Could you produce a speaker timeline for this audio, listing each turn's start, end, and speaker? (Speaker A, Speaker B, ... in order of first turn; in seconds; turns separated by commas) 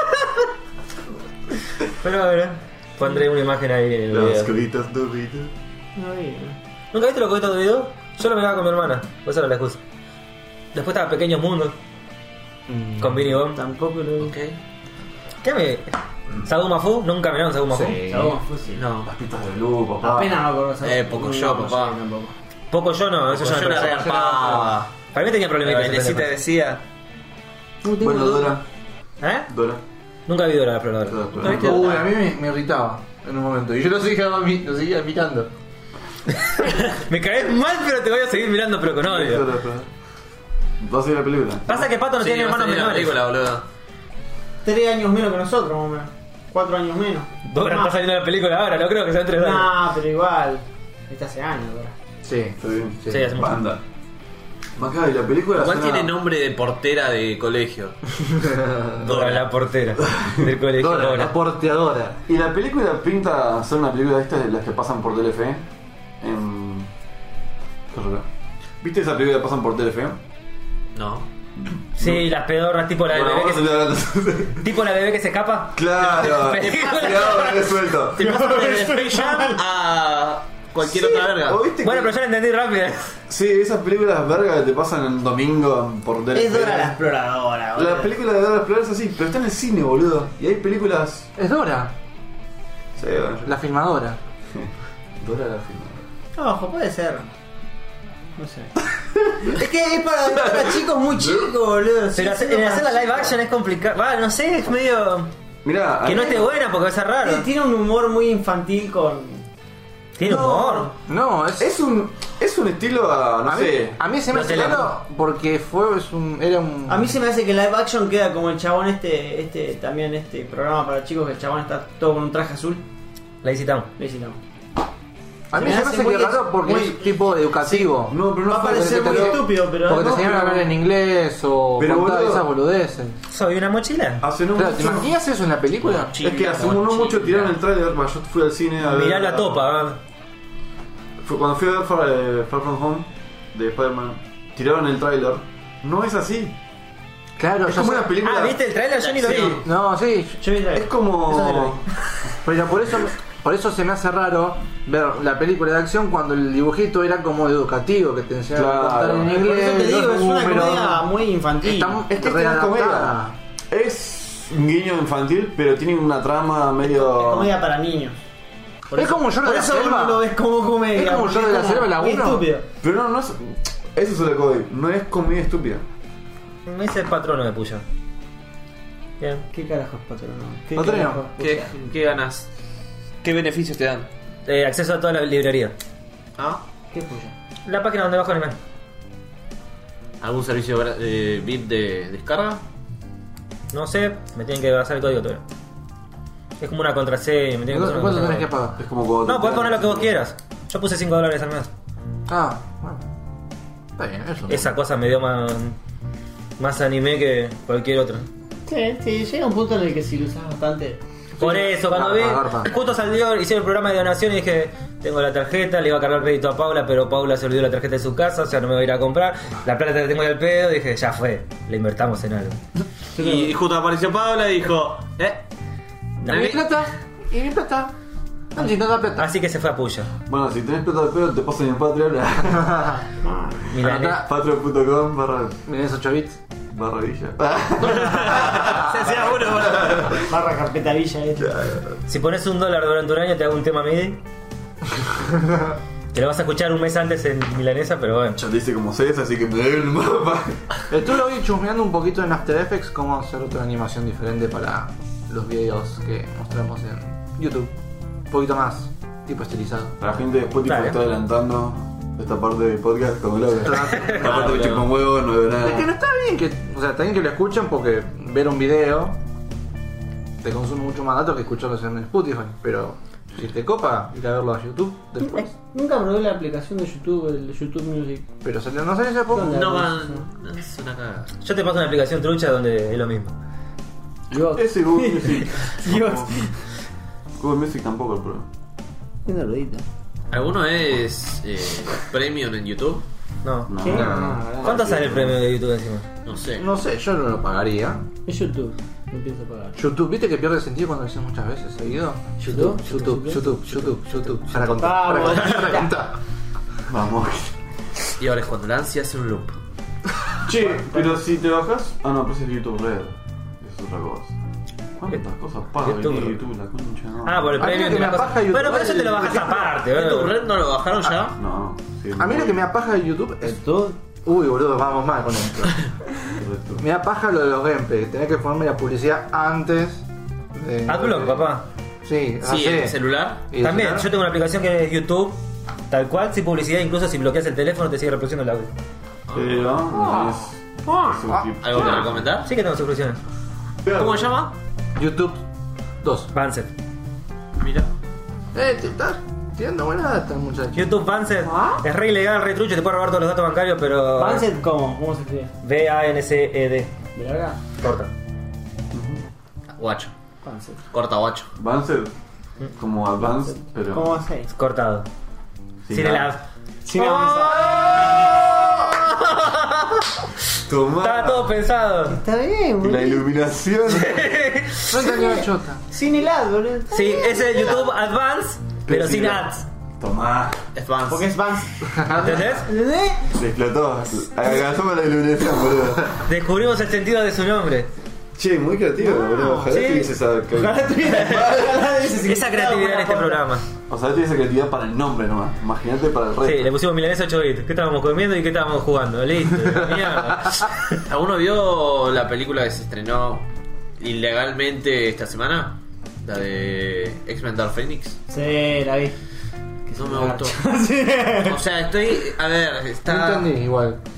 Speaker A: 2.0-4.5, Speaker B: 4.1-5.5, Speaker C: 6.0-6.6, Speaker A: 6.9-9.8, Speaker A: 10.7-11.7, Speaker D: 12.7-13.3, Speaker A: 13.0-13.6, Speaker C: 13.5-14.3, Speaker E: 14.2-14.6, Speaker A: 15.4-15.9, Speaker A: 16.4-18.0, Speaker D: 17.7-18.3, Speaker C: 18.1-18.8, Speaker E: 18.7-19.1, Speaker B: 19.0-20.4, Speaker C: 20.0-22.3, Speaker E: 20.8-21.9, Speaker A: 22.7-26.3, Speaker E: 23.3-24.9, Speaker E: 25.6-26.8, Speaker C: 27.8-28.6, Speaker B: 28.0-28.6, Speaker A: 29.2-29.5, Speaker B: 29.5-29.8, Speaker A: 30.3-31.3, Speaker B: 31.1-31.9, Speaker E: 31.4-32.1, Speaker D: 31.4-35.5, Speaker A: 36.4-39.4, Speaker B: 39.0-39.9, Speaker B: 40.8-41.9, Speaker A: 41.7-43.2, Speaker E: 42.2-43.6, Speaker C: 44.6-47.9, Speaker A: 47.5-49.7, Speaker C: 49.3-51.9, Speaker D: 52.2-53.1, Speaker B: 52.6-53.8, Speaker A: 53.1-53.6, Speaker B: 54.8-56.1, Speaker E: 55.5-58.0, Speaker D: 58.6-59.0, Speaker E: 59.0-59.5, Speaker A: 59.0-61.4, Speaker B: 60.1-60.5, Speaker D: 60.8-62.2, Speaker B: 62.3-65.7, Speaker B: 66.2-66.9, Speaker B: 67.9-68.2, Speaker B: 68.8-70.2, Speaker E: 70.9-71.2, Speaker B: 71.6-72.3, Speaker A: 72.0-73.7, Speaker B: 73.1-74.7, Speaker A: 74.6-77.6, Speaker B: 75.7-78.3, Speaker E: 76.0-77.5, Speaker E: 78.2-81.6, Speaker C: 78.2-79.6, Speaker A: 79.2-79.5, Speaker B: 81.4-82.1, Speaker A: 81.8-83.2, Speaker B: 83.3-87.0, Speaker C: 86.3-88.1, Speaker B: 87.8-91.3, Speaker D: 91.4-91.9, Speaker B: 93.0-93.5, Speaker D: 93.5-94.2, Speaker B: 94.5-96.0, Speaker C: 96.3-97.3, Speaker C: 98.4-98.7, Speaker C: 99.4-103.3, Speaker B: 100.3-101.5, Speaker A: 102.1-105.3, Speaker B: 105.6-106.5, Speaker A: 106.0-107.5, Speaker C: 107.2-109.4, Speaker A: 110.2-110.9, Speaker B: 110.2-110.9, Speaker D: 111.1-111.7, Speaker B: 111.6-114.9, Speaker D: 113.5-117.1, Speaker A: 114.3-114.9, Speaker C: 116.9-122.8, Speaker A: 123.4-123.9, Speaker C: 124.0-124.4, Speaker D: 125.5-133.2, Speaker C: 125.5-127.9, Speaker B: 128.1-130.4, Speaker C: 128.4-130.7, Speaker B: 131.8-132.4, Speaker A: 133.3-134.2, Speaker B: 134.2-135.1, Speaker D: 134.5-136.2, Speaker E: 135.8-137.6, Speaker B: 136.2-139.7, Speaker A: 138.8-140.0, Speaker B: 141.2-146.5, Speaker D: 147.4-148.1, Speaker B: 147.6-148.6, Speaker A: 148.2-149.6, Speaker E: 149.0-149.6, Speaker C: 149.3-149.6, Speaker D: 149.6-150.4, Speaker C: 150.4-151.8, Speaker B: 150.7-151.8, Speaker D: 152.4-161.0, Speaker B: 158.5-159.4, Speaker C: 159.2-162.0, Speaker D: 161.6-163.3, Speaker B: 162.1-163.2, Speaker B: 163.7-167.5, Speaker C: 166.8-168.2, Speaker C: 168.9-172.6, Speaker D: 168.9-170.2, Speaker D: 170.9-172.5, Speaker B: 172.8-175.8, Speaker A: 176.7-177.8, Speaker A: 179.2-179.4, Speaker C: 179.5-181.7, Speaker D: 180.8-181.2, Speaker E: 181.4-182.5, Speaker E: 183.2-184.1, Speaker A: 184.4-185.7, Speaker E: 186.4-186.6, Speaker C: 186.9-187.3, Speaker A: 187.7-188.5, Speaker E: 190.2-192.6, Speaker A: 193.7-195.4, Speaker A: 196.6-198.5, Speaker D: 197.7-198.8, Speaker B: 198.8-200.1, Speaker A: 199.2-201.7, Speaker D: 202.3-203.0, Speaker D: 204.0-204.7, Speaker A: 204.5-205.8, Speaker A: 206.6-208.2, Speaker C: 208.7-211.0, Speaker A: 211.4-222.6, Speaker D: 211.4-212.7, Speaker E: 223.2-225.4, Speaker C: 223.2-223.5, Speaker E: 226.2-226.6, Speaker D: 226.2-227.9, Speaker D: 228.5-229.3, Speaker A: 229.2-230.1, Speaker B: 230.3-232.7, Speaker D: 232.7-233.0, Speaker C: 233.2-233.6, Speaker A: 233.7-234.2, Speaker D: 233.8-234.2, Speaker B: 233.8-235.6, Speaker D: 235.7-236.4, Speaker B: 236.7-240.3, Speaker E: 237.8-240.2, Speaker C: 240.3-241.6, Speaker B: 241.4-242.0, Speaker A: 242.1-244.2, Speaker A: 246.1-248.4, Speaker B: 248.3-250.6, Speaker D: 250.9-257.7, Speaker D: 258.3-259.9, Speaker B: 260.0-265.9, Speaker A: 260.6-261.0, Speaker D: 263.6-264.8, Speaker E: 264.2-264.9, Speaker D: 265.6-269.2, Speaker D: 270.4-275.5, Speaker C: 275.2-278.2, Speaker D: 278.4-279.6, Speaker C: 279.3-280.2, Speaker E: 279.4-281.3, Speaker A: 281.4-283.3, Speaker C: 284.3-286.5, Speaker B: 284.4-286.4, Speaker B: 287.4-288.5, Speaker C: 289.2-289.8, Speaker E: 290.3-293.0, Speaker A: 293.4-296.0, Speaker B: 293.7-295.4, Speaker C: 293.8-294.8, Speaker E: 296.2-296.6, Speaker D: 296.6-298.0, Speaker C: 298.3-299.8, Speaker D: 299.8-306.1, Speaker C: 302.4-306.0, Speaker B: 306.9-307.6, Speaker E: 308.2-309.6, Speaker B: 310.4-314.3, Speaker C: 310.6-311.1, Speaker B: 315.0-317.8, Speaker A: 315.8-316.4, Speaker A: 317.2-320.4, Speaker D: 317.6-319.7, Speaker E: 319.2-321.4, Speaker B: 321.3-322.6, Speaker D: 322.2-325.8, Speaker B: 326.3-326.8, Speaker D: 326.8-331.4, Speaker A: 330.9-331.6, Speaker D: 332.0-333.0, Speaker E: 332.4-333.5, Speaker D: 333.5-334.1, Speaker A: 333.6-335.4, Speaker A: 335.9-338.7, Speaker E: 339.3-339.7, Speaker B: 339.3-342.2, Speaker C: 340.9-341.2, Speaker E: 341.6-342.5, Speaker A: 342.4-343.2, Speaker E: 343.9-344.5, Speaker D: 344.9-345.4, Speaker D: 346.0-346.3, Speaker A: 346.3-346.7, Speaker E: 347.6-347.9, Speaker D: 348.5-350.9, Speaker A: 350.7-354.5, Speaker C: 351.4-351.8, Speaker C: 354.2-355.5, Speaker A: 355.6-356.9, Speaker C: 357.1-357.6, Speaker A: 357.8-358.1, Speaker B: 358.9-359.2, Speaker E: 359.8-360.1, Speaker C: 360.4-360.8, Speaker E: 360.9-361.5, Speaker B: 361.6-362.1, Speaker B: 362.8-364.1, Speaker C: 363.9-364.5, Speaker A: 364.5-365.0, Speaker B: 365.9-366.3, Speaker A: 365.9-369.6, Speaker C: 366.8-368.0, Speaker B: 370.6-371.6, Speaker A: 371.0-372.2, Speaker C: 372.1-373.2, Speaker B: 372.8-374.3, Speaker A: 373.9-375.3, Speaker D: 374.9-375.8, Speaker C: 375.1-377.8, Speaker A: 376.9-379.6, Speaker B: 378.9-380.6, Speaker E: 380.7-381.3, Speaker C: 381.1-383.3, Speaker D: 382.0-382.5, Speaker A: 382.1-382.7, Speaker B: 383.3-386.2, Speaker A: 386.2-387.9, Speaker B: 388.4-391.9, Speaker C: 389.0-390.0, Speaker A: 389.7-390.1, Speaker C: 390.5-393.5, Speaker A: 392.2-393.6, Speaker B: 393.9-396.7, Speaker A: 396.4-401.0, Speaker E: 401.1-403.5, Speaker E: 404.0-408.2, Speaker C: 408.3-409.1, Speaker C: 409.9-411.6, Speaker E: 409.9-410.6, Speaker E: 411.4-413.5, Speaker D: 413.0-414.0